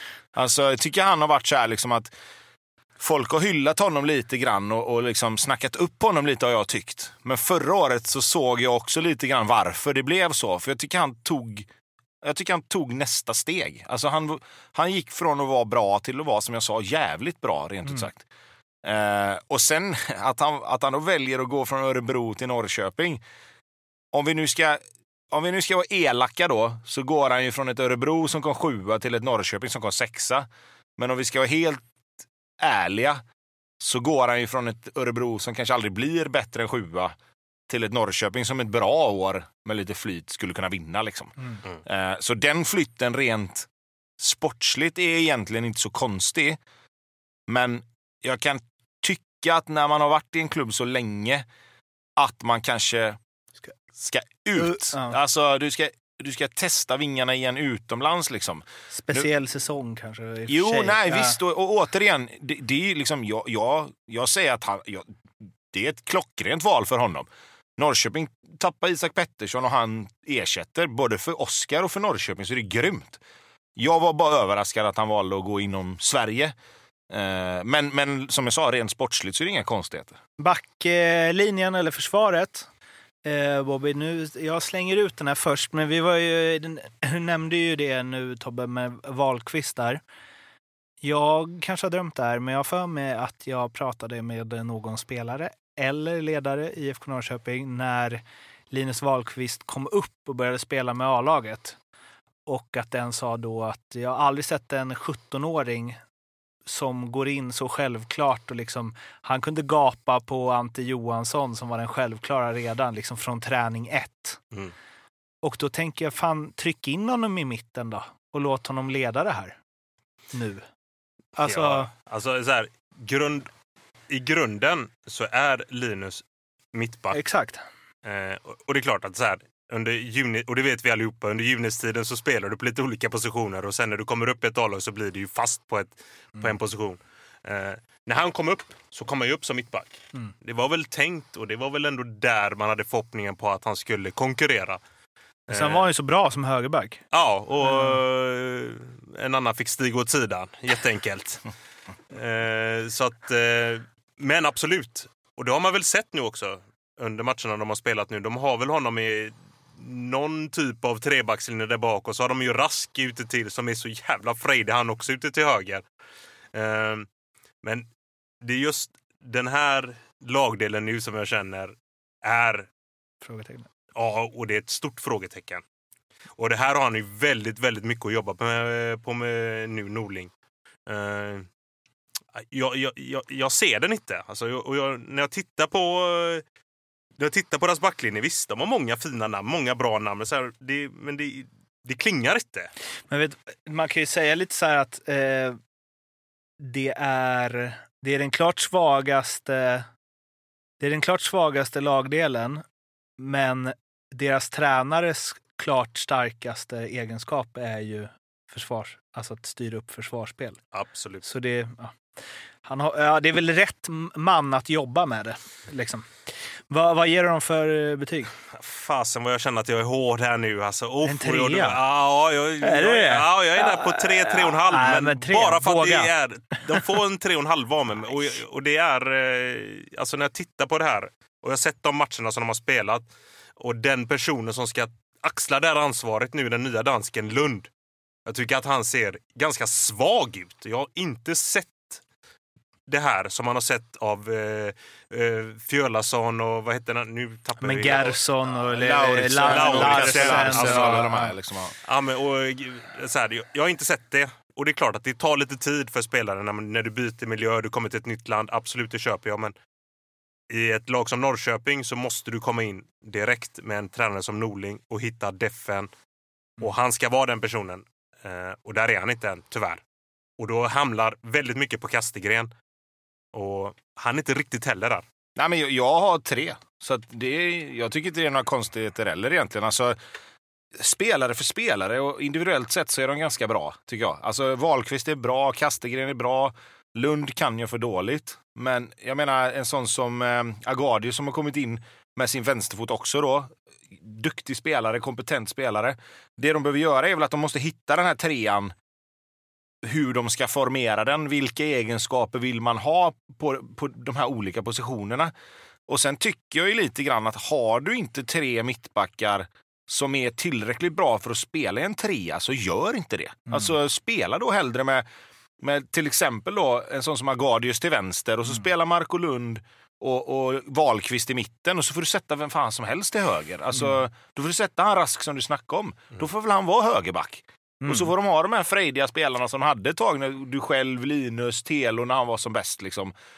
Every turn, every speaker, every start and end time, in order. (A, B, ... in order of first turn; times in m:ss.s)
0:00.3-0:02.1 A
0:03.0-0:11.7 A
0:12.2-0:18.2 A
0:18.8-0:23.2 A
0:24.1-0:31.8 A
0:32.6-0:33.2 A
0:33.8-0:37.1 A
0:37.7-0:43.7 A
0:44.2-0:46.6 A
0:47.5-0:51.4 A
0:52.2-0:53.2 A
0:54.0-0:59.3 A
0:54.6-0:55.2 B
0:58.9-1:01.4 B
1:00.5-1:05.1 A
1:05.7-1:13.2 A
1:13.8-1:16.5 A
1:17.1-1:20.2 A
1:20.4-1:22.7 B
1:23.2-1:30.0 B
1:31.0-1:41.8 B
1:42.4-1:46.0 B
1:46.7-1:54.4 B
1:55.4-1:59.6 B
2:00.3-2:00.6 B
2:01.4-2:01.9 B
2:01.4-2:03.5 C
2:04.1-2:07.2 C
2:07.1-2:07.6 B
2:08.0-2:24.8 C
2:25.5-2:25.9 C
2:25.5-2:27.0 B
2:27.1-2:31.5 C
2:27.6-2:28.0 B
2:32.1-2:45.8 C
2:46.5-2:47.1 C
2:47.6-2:47.9 C
2:48.4-2:52.7 C
2:53.2-2:53.7 B
2:53.9-2:55.6 C
2:56.4-3:00.3 C
3:00.9-3:01.5 C
3:02.4-3:06.4 C
3:07.2-3:12.7 C
3:13.1-3:15.6 B
3:16.6-3:19.9 B
3:20.8-3:22.6 B
3:23.2-3:30.6 B
3:30.7-3:31.2 C
3:31.2-3:32.0 B
3:32.6-3:38.3 B
3:38.5-3:57.7 C
3:41.0-3:41.8 B
3:42.6-3:46.1 B
3:58.2-4:02.0 C
4:02.9-4:08.2 C
4:07.6-4:11.3 B
4:08.7-4:11.8 A
4:09.4-4:11.1 C
4:11.8-4:19.5 C
4:20.5-4:25.9 C
4:26.6-4:29.8 C
4:30.4-4:32.5 C
4:33.3-4:35.0 C
4:35.4-4:40.0 A
4:40.8-4:58.7 A
4:59.8-5:05.3 A
5:05.9-5:15.1 A
5:13.5-5:13.8 B
5:15.6-5:33.1 A
5:27.8-5:28.1 B